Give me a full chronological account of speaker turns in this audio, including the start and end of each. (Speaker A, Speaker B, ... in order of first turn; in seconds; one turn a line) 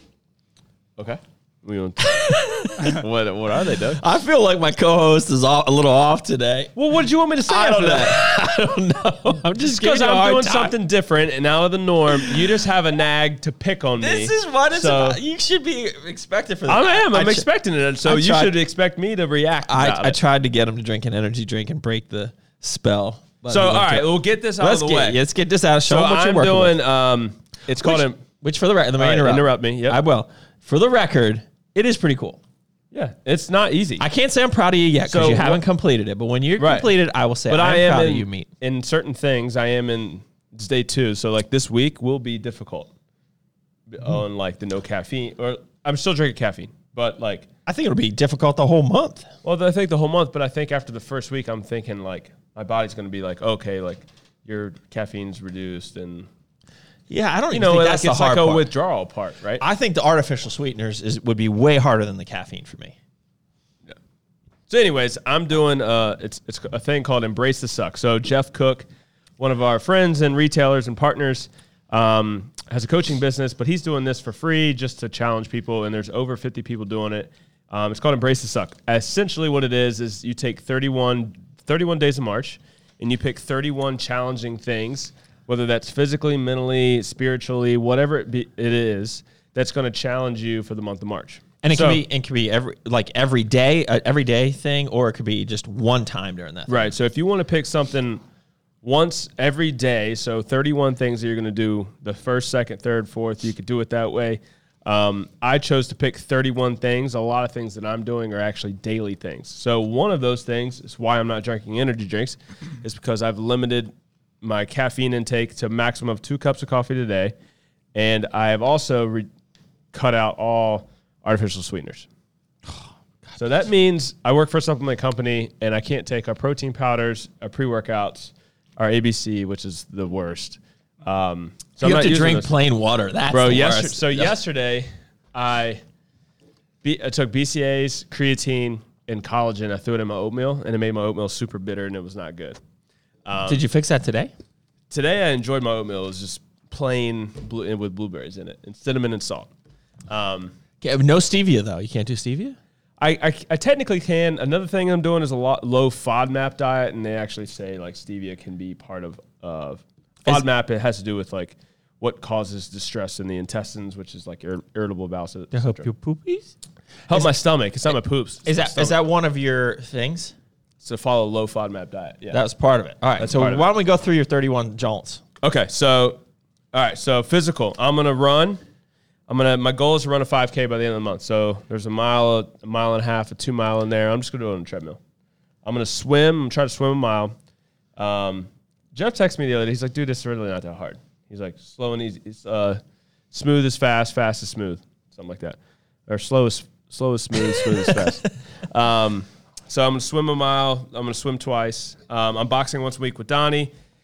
Speaker A: 1.0-4.0
Speaker B: 2.0-3.0
Speaker B: 4.0-6.7
Speaker A: 6.7-8.2
Speaker B: 7.5-10.7
Speaker A: 9.6-15.2
Speaker B: 12.2-12.5
Speaker B: 14.0-17.4
Speaker A: 16.7-20.2
Speaker B: 18.0-18.6
Speaker B: 19.6-26.8
Speaker A: 23.5-25.2
Speaker A: 25.9-28.2
Speaker B: 27.8-32.4
Speaker A: 29.0-30.0
Speaker A: 32.9-34.0
Speaker B: 34.0-38.5
Speaker A: 35.0-35.6
Speaker A: 36.6-36.9
Speaker A: 37.5-42.9
Speaker A: 43.9-47.5
Speaker B: 47.6-49.3
Speaker A: 49.4-56.3
Speaker B: 57.1-58.7
Speaker A: 57.5-59.6
Speaker B: 59.6-63.0
Speaker A: 64.7-92.0
Speaker B: 91.6-96.9
Speaker A: 96.7-98.2
Speaker A: 98.8-117.3
Speaker A: 117.9-119.3
Speaker A: 119.9-122.1
Speaker A: 123.4-132.5
Speaker B: 131.8-134.3
Speaker A: 133.3-135.8
Speaker A: 136.8-142.6
Speaker A: 143.2-143.6
Speaker B: 143.5-144.3
Speaker A: 144.9-149.5
Speaker A: 150.1-150.5
Speaker B: 150.8-152.6
Speaker A: 153.0-165.9
Speaker B: 165.5-166.5
Speaker A: 167.1-169.0
Speaker B: 168.4-170.3
Speaker A: 170.8-172.4
Speaker B: 172.3-175.2
Speaker A: 173.2-173.7
Speaker A: 175.4-176.2
Speaker A: 176.7-178.6
Speaker A: 179.3-185.0
Speaker A: 185.6-187.3
Speaker A: 187.9-203.7